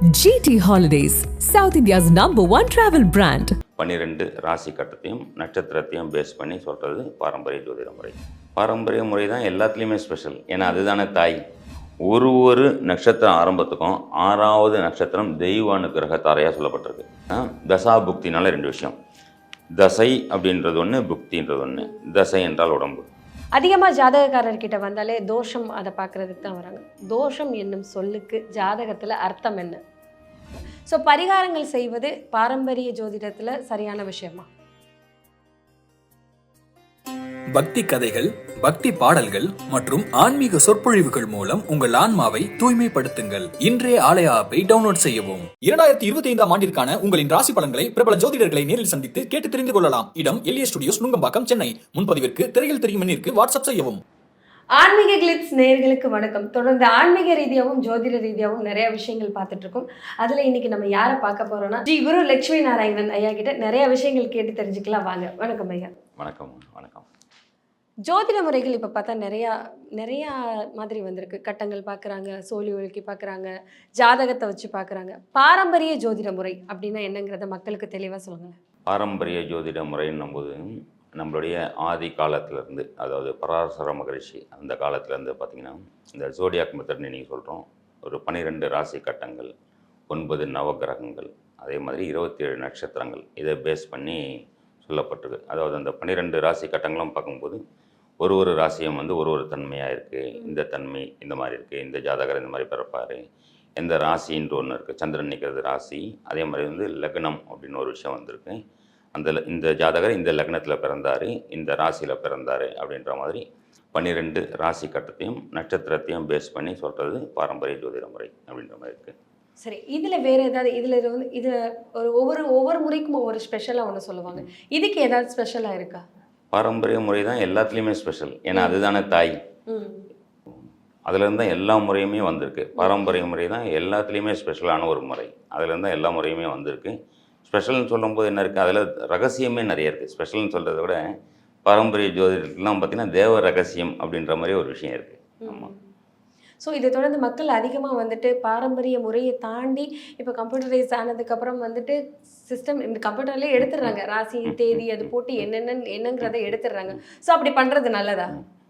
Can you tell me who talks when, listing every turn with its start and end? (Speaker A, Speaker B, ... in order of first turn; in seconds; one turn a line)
Speaker A: 0.2-3.5
Speaker B: 3.8-11.4
Speaker B: 12.1-18.9
Speaker B: 19.8-23.1
Speaker C: 23.6-29.8
Speaker C: 30.9-34.5
Speaker D: 37.5-54.0
Speaker C: 54.8-65.9
Speaker B: 66.2-67.0
Speaker C: 68.1-78.5
Speaker B: 78.9-80.6
Speaker B: 81.2-89.5
Speaker B: 90.1-94.2
Speaker B: 94.8-97.6
Speaker B: 98.2-103.2
Speaker B: 103.8-108.6
Speaker B: 109.1-119.1
Speaker C: 119.6-126.0
Speaker B: 126.5-129.4
Speaker C: 128.5-128.8
Speaker C: 129.7-130.0
Speaker B: 131.1-136.9
Speaker B: 137.4-141.0
Speaker B: 141.7-145.7
Speaker C: 145.4-145.8
Speaker C: 146.6-152.0
Speaker C: 152.5-158.3
Speaker B: 154.5-154.8